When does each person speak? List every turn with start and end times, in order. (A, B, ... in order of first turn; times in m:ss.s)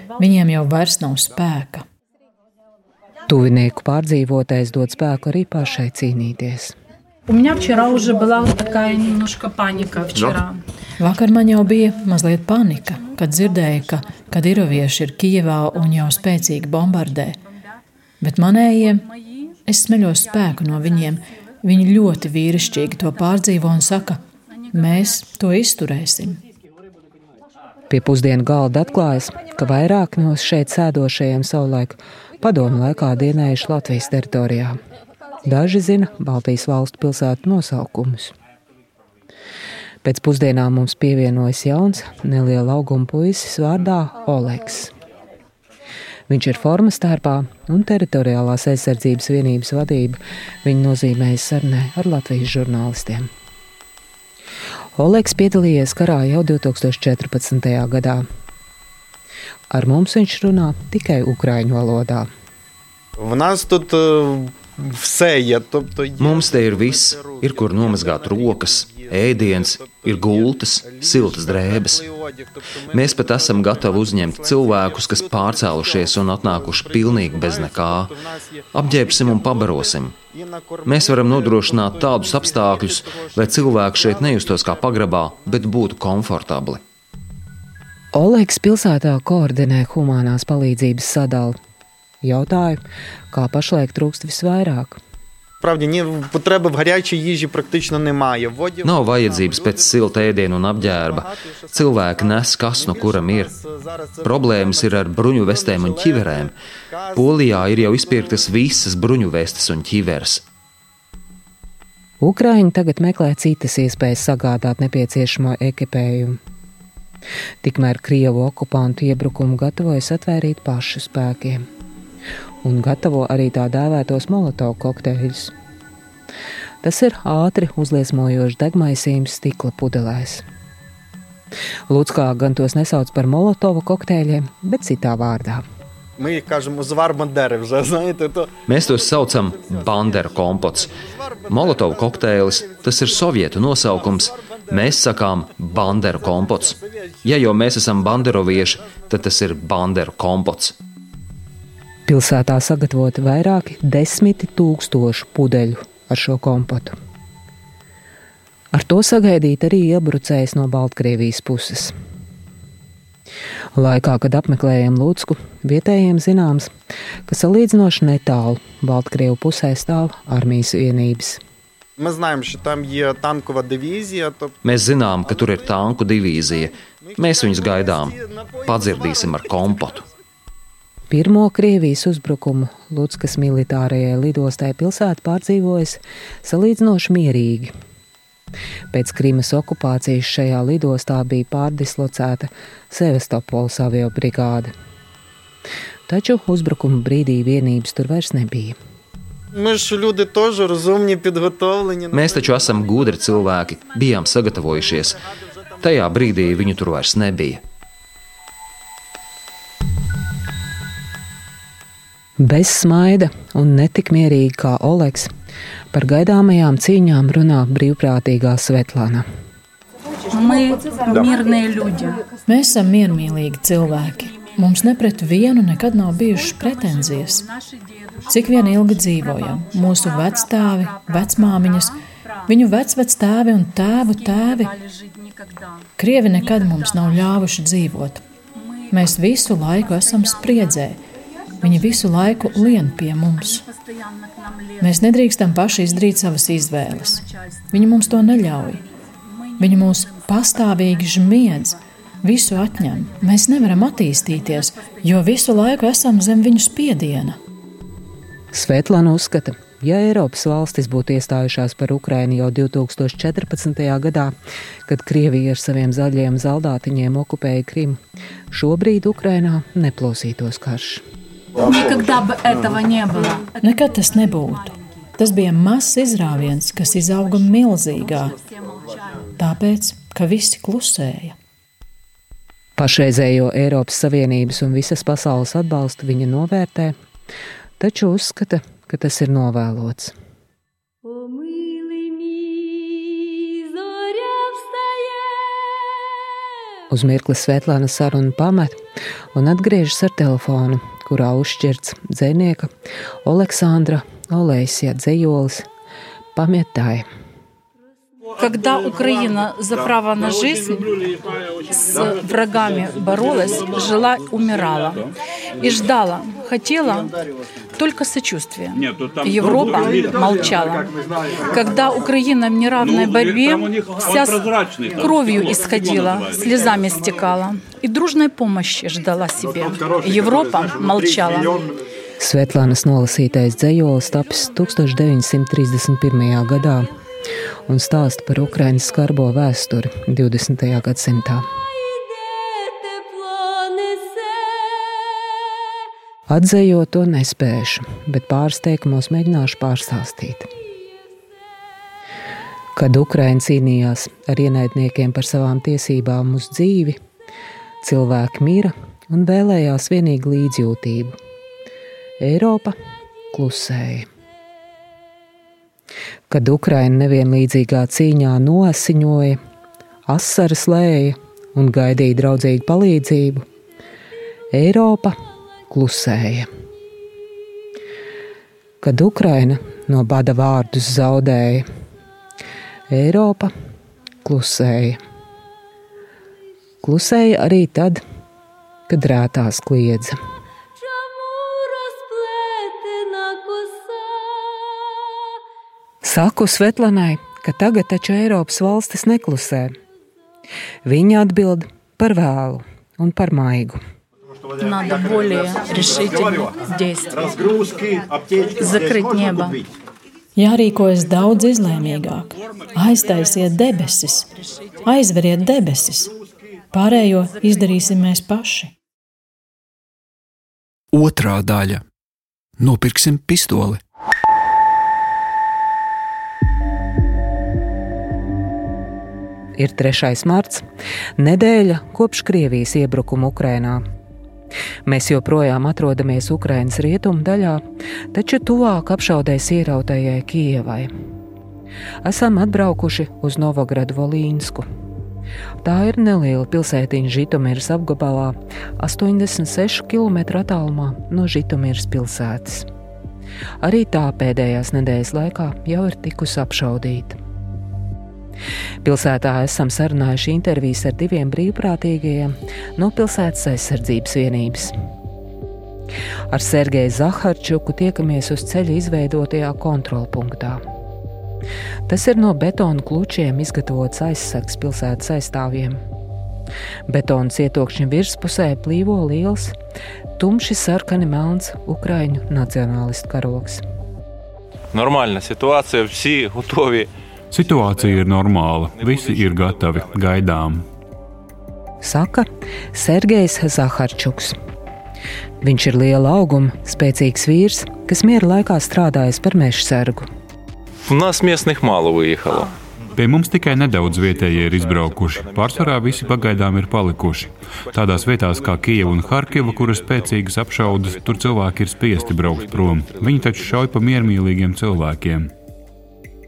0:00.2-0:01.8 A
0:03.3-0:06.8 B
0:07.3-0:10.6 C
0:11.0-0:17.4 A
0:18.2-0:19.1 A
0:19.7-0:24.2 A
0:24.7-0:26.4 A
0:27.9-0:34.8 B
0:35.4-0:38.3 B
0:40.0-0:44.9 B
0:46.3-0:53.3 B
0:55.0-0:58.3 B
0:59.7-1:02.3 B
1:03.2-1:06.4 D
1:06.2-1:12.1 E
1:07.2-1:07.4 D
1:09.8-1:10.1 D
1:10.8-1:11.3 D
1:12.0-1:12.8 D
1:12.9-1:18.2 E
1:15.6-1:16.0 D
1:16.9-1:17.7 D
1:18.7-1:20.2 E
1:20.3-1:21.6 D
1:20.9-1:26.8 E
1:22.1-1:24.6 D
1:28.1-1:31.6 B
1:32.2-1:32.8 B
1:33.3-1:35.0 B
1:35.6-1:38.9 D
1:38.8-1:43.5 E
1:41.2-1:42.1 D
1:42.8-1:44.8 D
1:44.2-1:46.5 E
1:45.6-1:46.4 D
1:46.9-1:47.2 D
1:47.2-1:50.4 E
1:52.2-1:56.4 B
1:57.6-2:01.7 B
2:02.6-2:05.5 B
2:06.8-2:10.4 B
2:11.9-2:15.6 B
2:16.2-2:18.5 D
2:18.7-2:20.9 E
2:21.5-2:30.8 E
2:32.1-2:37.0 B
2:38.7-2:41.9 B
2:43.8-2:46.7 B
2:47.3-2:51.4 B
2:52.0-2:54.5 D
2:54.6-3:00.1 E
3:01.1-3:07.7 B
3:08.9-3:14.7 B
3:16.1-3:18.8 B
3:19.5-3:22.2 D
3:22.1-3:25.2 E
3:25.8-3:27.6 E
3:32.4-3:35.3 B
3:35.9-3:39.2 B
3:40.3-3:42.2 C
3:42.5-3:47.5 A
3:48.3-3:52.0 A
3:52.5-3:54.8 A
3:56.0-3:58.2 A
3:58.9-4:01.0 A
4:01.6-4:03.6 A
4:04.8-4:08.8 A
4:09.6-4:17.4 A
4:18.5-4:24.3 B
4:24.9-4:31.0 B
4:31.6-4:33.6 C
4:33.6-4:38.4 A
4:39.4-4:41.4 A
4:42.8-4:47.0 B
4:47.8-4:50.1 B
4:56.9-4:58.8 B
4:59.3-5:02.7 B
5:03.2-5:05.7 B
5:06.3-5:07.1 B
5:08.4-5:11.0 C
5:11.7-5:17.1 C
5:17.8-5:20.9 C
5:21.5-5:31.5 C
5:32.2-5:36.9 B
5:37.7-5:41.4 B
5:46.3-5:50.5 B
5:52.8-5:57.0 B
5:57.8-6:01.2 B
6:02.2-6:02.8 B
6:03.3-6:04.1 B
6:06.3-6:09.4 B
6:10.1-6:13.4 B
6:14.5-6:15.2 B
6:15.7-6:16.5 B
6:18.8-6:21.7 B
6:22.9-6:23.5 B
6:24.2-6:25.0 B
6:26.8-6:28.0 B
6:28.9-6:30.2 B
6:36.0-6:39.7 B
6:40.8-6:43.8 B
6:44.6-6:47.4 C
6:48.6-6:49.6 C
6:50.4-6:54.3 A
6:54.9-6:56.1 A
6:56.7-6:58.7 A
7:00.9-7:01.8 F
7:02.6-7:03.8 F
7:09.6-7:10.7 B
7:11.2-7:13.8 B
7:14.8-7:20.9 B
7:22.0-7:24.6 B
7:25.6-7:32.7 B
7:33.6-7:37.2 B
7:38.8-7:44.8 B
7:46.3-7:50.6 B
7:51.9-7:55.8 B
7:56.9-7:59.6 B
8:00.2-8:03.6 B
8:04.7-8:06.9 G
8:07.3-8:10.6 H
8:11.8-8:14.4 B
8:15.4-8:20.1 B
8:20.9-8:22.5 G
8:23.0-8:35.3 H
8:32.4-8:33.4 G